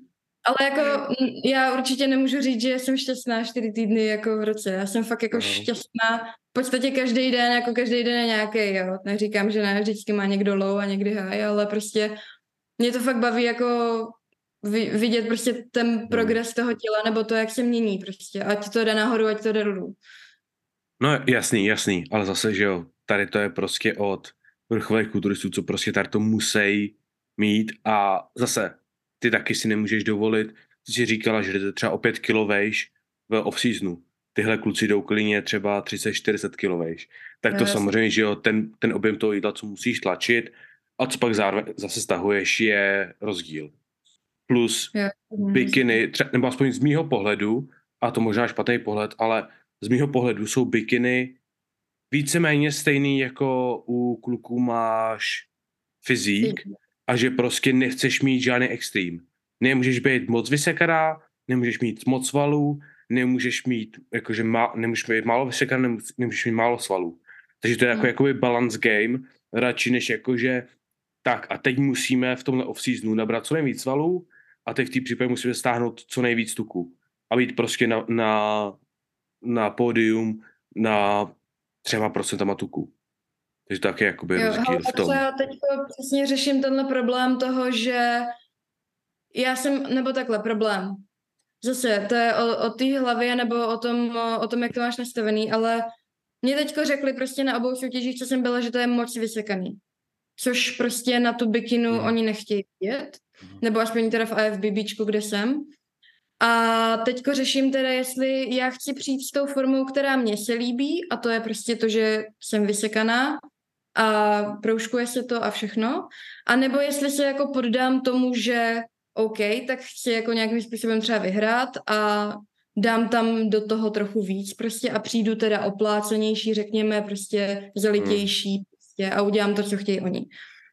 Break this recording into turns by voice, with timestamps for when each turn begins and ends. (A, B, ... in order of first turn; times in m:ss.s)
0:00.4-0:12.2 A
0:05.3-0:05.7 B
0:12.8-0:20.0 A
0:16.1-0:16.4 B
0:21.0-0:43.7 B
0:37.5-0:37.9 A
0:44.5-0:44.9 B
0:44.9-0:46.0 A
0:45.5-0:51.4 B
0:52.1-0:55.5 B
0:56.0-1:10.7 B
0:56.4-0:56.7 A
1:11.2-1:18.8 B
1:19.4-1:22.9 B
1:23.7-1:25.2 B
1:24.4-1:28.3 A
1:29.3-1:31.0 A
1:31.6-1:35.9 A
1:36.4-1:39.8 A
1:40.4-1:45.7 A
1:41.9-1:42.2 B
1:46.4-1:53.4 A
1:54.0-2:10.3 A
2:08.0-2:08.3 B